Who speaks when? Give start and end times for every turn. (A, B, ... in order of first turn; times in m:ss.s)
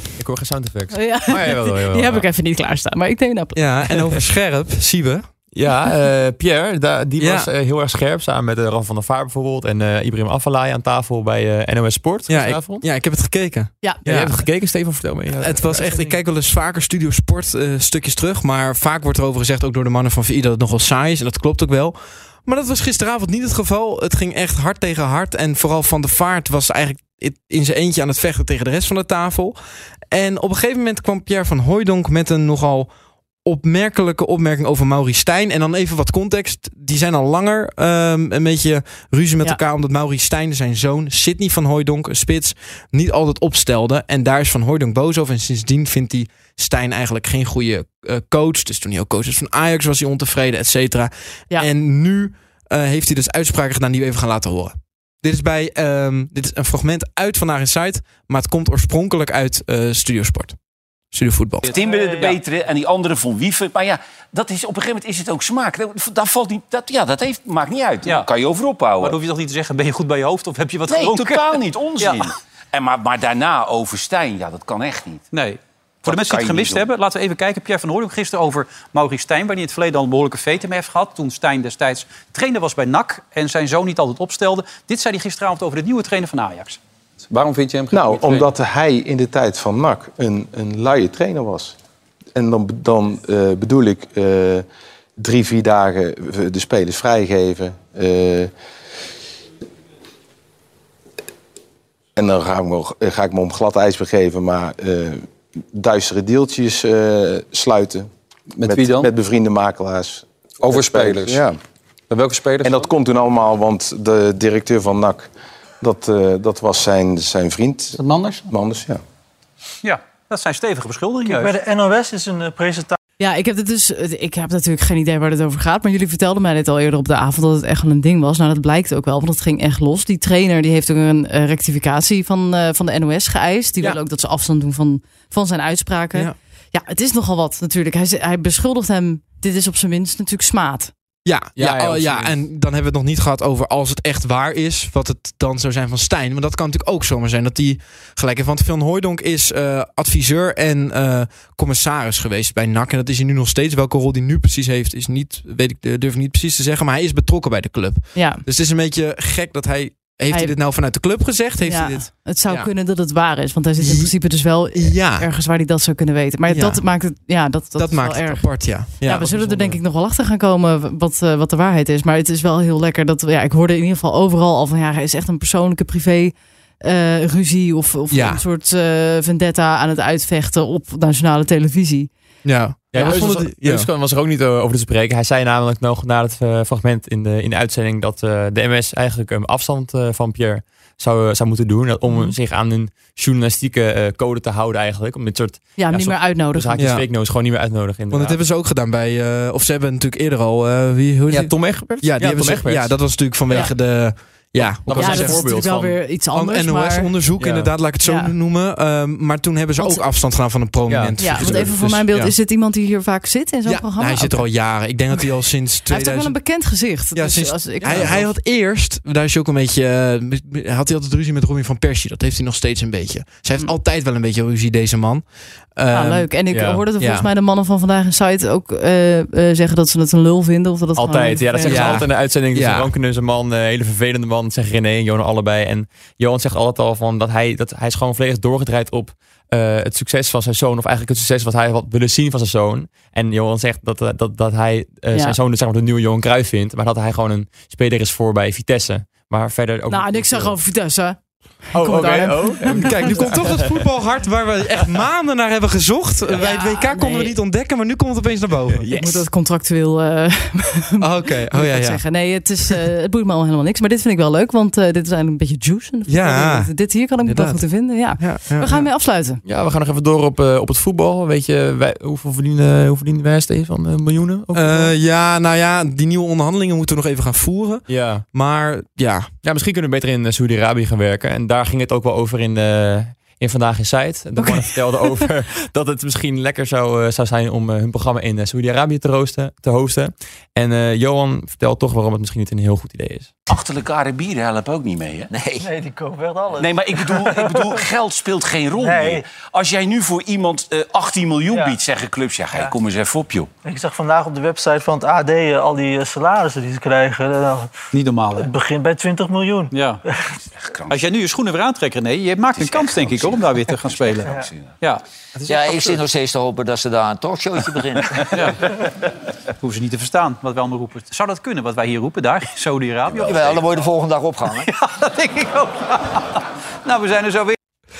0:00.2-0:02.3 A
0:00.9-0:03.6 B
0:03.6-0:05.2 C
0:05.5-0:12.8 A
0:07.2-0:07.5 C
0:12.3-0:14.4 C
0:14.0-0:16.2 A
0:15.4-0:29.6 C
0:30.1-0:32.9 C
0:33.4-1:00.6 C
1:01.1-1:01.7 C
1:01.7-1:02.4 D
1:01.7-1:09.2 E
1:01.8-1:02.1 F
1:09.0-1:12.3 D
1:10.9-1:15.2 E
1:15.3-1:26.8 D
1:16.0-1:16.8 E
1:27.3-1:28.5 G
1:27.9-1:31.8 H
1:32.4-1:34.6 H
1:35.2-1:38.5 H
1:42.2-1:45.2 H
1:45.8-1:51.6 H
1:48.6-1:49.1 G
1:50.7-1:51.4 G
1:52.1-1:52.9 G
1:52.6-1:55.3 H
1:55.8-1:59.0 H
1:58.1-1:58.4 G
1:59.8-2:01.6 D
2:01.2-2:03.0 F
2:03.2-2:20.9 B
2:21.2-2:42.7 C
2:21.6-2:22.4 A
2:38.2-2:38.4 B
2:41.6-3:02.1 B
2:43.8-2:44.2 C
2:44.7-2:45.3 C
2:46.5-2:46.8 C
2:47.8-2:49.3 C
2:49.3-2:49.7 A
2:58.1-2:58.4 C
3:02.4-3:03.9 C
3:02.9-3:18.4 A
3:03.0-3:03.2 B
3:15.8-3:16.8 B
3:16.8-3:17.1 C
3:18.1-3:25.5 C
3:21.3-3:23.0 A
3:24.8-3:26.0 A
3:24.9-3:27.1 B
3:26.3-3:32.4 C
3:27.4-3:27.7 A
3:28.0-3:28.3 B
3:30.9-3:31.7 A
3:31.2-3:34.5 B
3:33.6-3:36.4 C
3:35.9-3:38.3 B
3:37.1-3:45.2 C
3:37.8-3:38.2 A
3:45.8-3:46.3 C
3:45.9-3:52.0 B
3:46.5-3:46.8 A
3:47.0-3:47.3 C
3:51.0-4:10.6 A
3:51.7-3:52.9 C
4:09.9-4:11.2 B
4:11.7-4:13.3 B
4:11.7-4:13.5 A
4:12.7-4:18.9 C
4:16.4-4:17.4 B
4:18.7-4:19.3 A
4:18.9-4:29.4 B
4:21.0-4:22.0 C
4:26.1-4:28.9 C
4:29.4-4:34.9 A
4:34.5-4:39.3 C
4:37.9-4:38.2 A
4:39.4-4:53.3 A
4:53.5-4:55.6 E
4:55.6-4:57.8 F
4:56.5-5:03.5 E
4:58.8-4:59.2 F
5:01.5-5:01.8 F
5:03.6-5:07.7 F
5:07.9-5:08.5 D
5:08.4-5:09.7 F
5:09.7-5:10.0 D
5:10.6-5:11.1 E
5:10.9-5:16.1 D
5:12.5-5:14.7 E
5:15.5-5:18.0 I
5:18.3-5:18.6 D
5:19.6-5:23.9 D
5:23.3-5:24.6 I
5:24.4-5:27.6 D